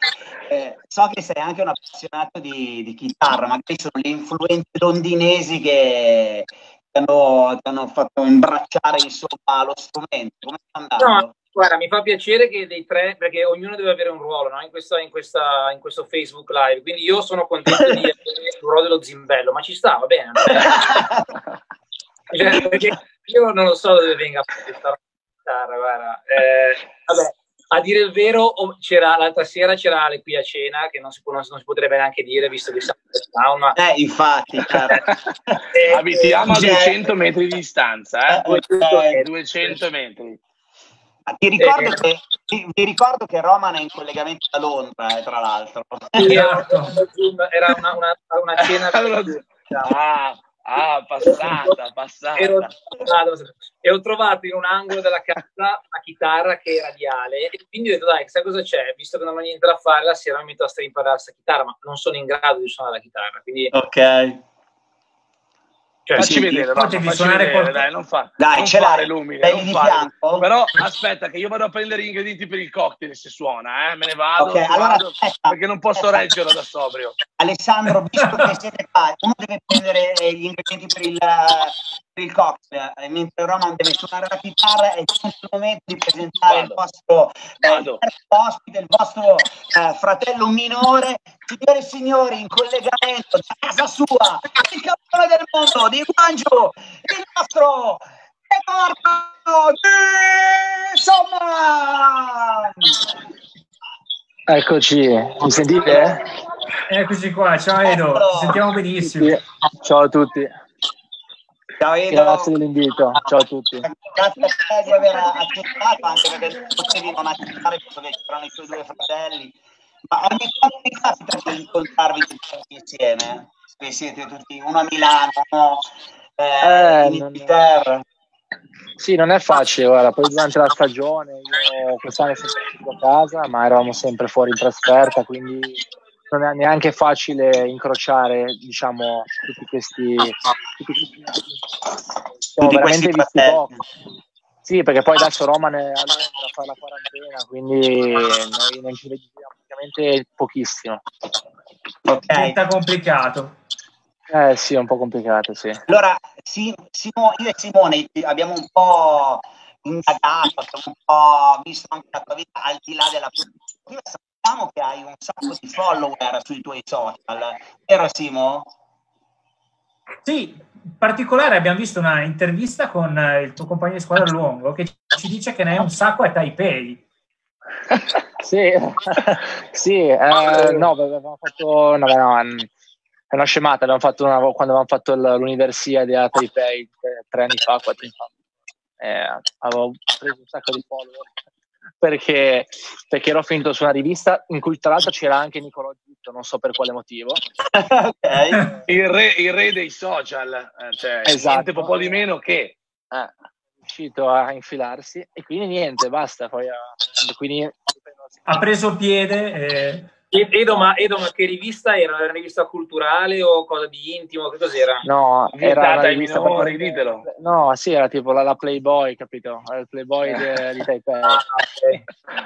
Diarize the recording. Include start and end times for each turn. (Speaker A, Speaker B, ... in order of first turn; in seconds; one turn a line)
Speaker A: 0.5-11.3
Speaker B: 11.0-21.0
Speaker A: 20.5-21.3
Speaker B: 22.3-33.8
Speaker A: 33.8-35.6
Speaker B: 35.7-36.4
Speaker C: 35.9-38.6
Speaker A: 36.4-37.2
Speaker A: 38.3-39.2
Speaker B: 38.5-39.3
Speaker C: 39.1-40.4
Speaker A: 41.3-46.3
Speaker B: 41.6-42.0
Speaker D: 46.2-47.0
Speaker B: 46.2-49.9
Speaker C: 48.6-52.7
Speaker B: 51.2-51.8
Speaker B: 52.4-63.7
Speaker A: 63.7-64.4
Speaker B: 66.0-66.4
Speaker C: 66.2-77.2
Speaker A: 66.2-66.6
Speaker D: 66.6-67.8
Speaker A: 68.4-70.5
Speaker A: 74.4-76.3
Speaker A: 77.4-103.0
Speaker D: 78.2-78.5
Speaker C: 86.5-86.8
Speaker C: 87.6-88.0
Speaker E: 104.5-106.2
Speaker A: 105.8-106.2
Speaker D: 106.9-109.3
Speaker A: 107.8-108.6
Speaker E: 109.0-110.5
Speaker A: 111.8-112.5
Speaker E: 112.1-113.9
Speaker A: 113.8-119.5
Speaker A: 120.1-128.0
Speaker E: 126.6-127.5
Speaker E: 129.0-141.6
Speaker E: 142.4-143.7
Speaker A: 142.6-143.8
Speaker E: 144.6-151.0
Speaker A: 152.1-152.6
Speaker D: 152.3-153.6
Speaker E: 154.3-155.8
Speaker A: 155.9-168.7
Speaker D: 170.2-177.0
Speaker E: 178.4-182.7
Speaker C: 180.5-180.9
Speaker E: 183.3-188.3
Speaker E: 189.0-191.3
Speaker E: 192.0-197.4
Speaker A: 197.7-198.6
Speaker C: 198.9-203.3
Speaker E: 201.2-202.2
Speaker E: 203.8-208.6
Speaker D: 208.4-210.1
Speaker B: 210.3-215.0
Speaker E: 215.0-221.4
Speaker C: 215.6-217.2
Speaker B: 221.3-222.0